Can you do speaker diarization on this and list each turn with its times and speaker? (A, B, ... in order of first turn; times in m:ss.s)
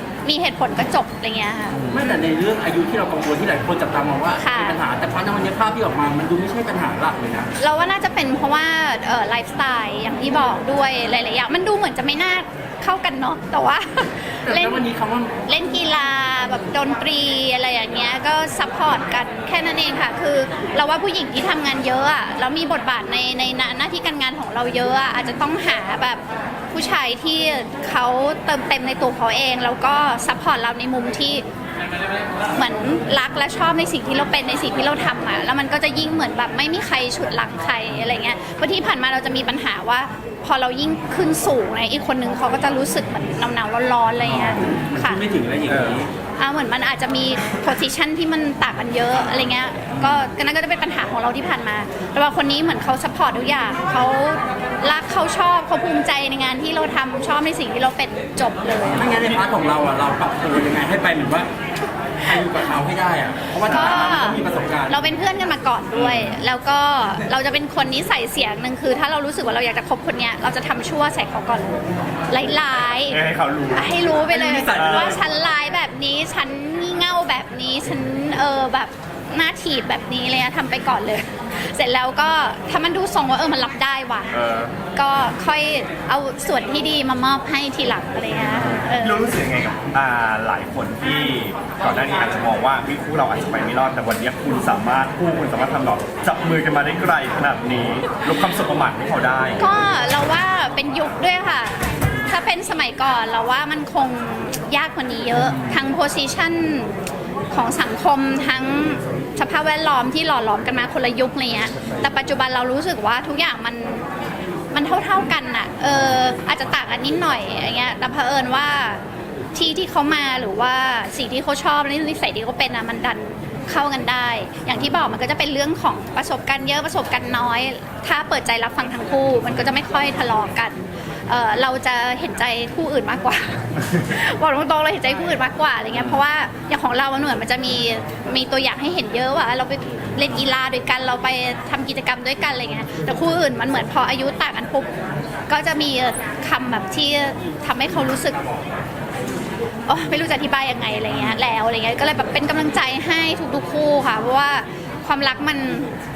0:00.2-0:01.9 A
0:01.9-0:07.5 B
0:04.4-0:04.8 A
0:07.6-0:14.8 A
0:14.4-0:15.3 B
0:15.4-0:26.2 A
0:26.7-0:31.4 A
0:32.5-0:45.2 A
0:44.2-0:46.1 B
0:45.7-0:46.0 C
0:46.4-0:59.1 A
0:58.9-1:01.5 B
0:59.0-0:59.4 C
1:02.2-1:05.0 B
1:03.6-1:13.2 A
1:03.7-1:04.2 C
1:05.9-1:06.4 C
1:13.1-1:13.9 C
1:13.7-1:24.3 A
1:14.1-1:15.2 B
1:14.7-1:15.2 C
1:24.3-1:24.7 C
1:24.9-1:29.4 A
1:28.9-1:39.6 C
1:39.6-1:47.0 A
1:47.5-1:54.0 A
1:54.7-1:59.0 A
1:59.5-2:24.9 A
2:25.5-2:28.4 A
2:29.9-2:35.9 A
2:31.1-2:31.4 B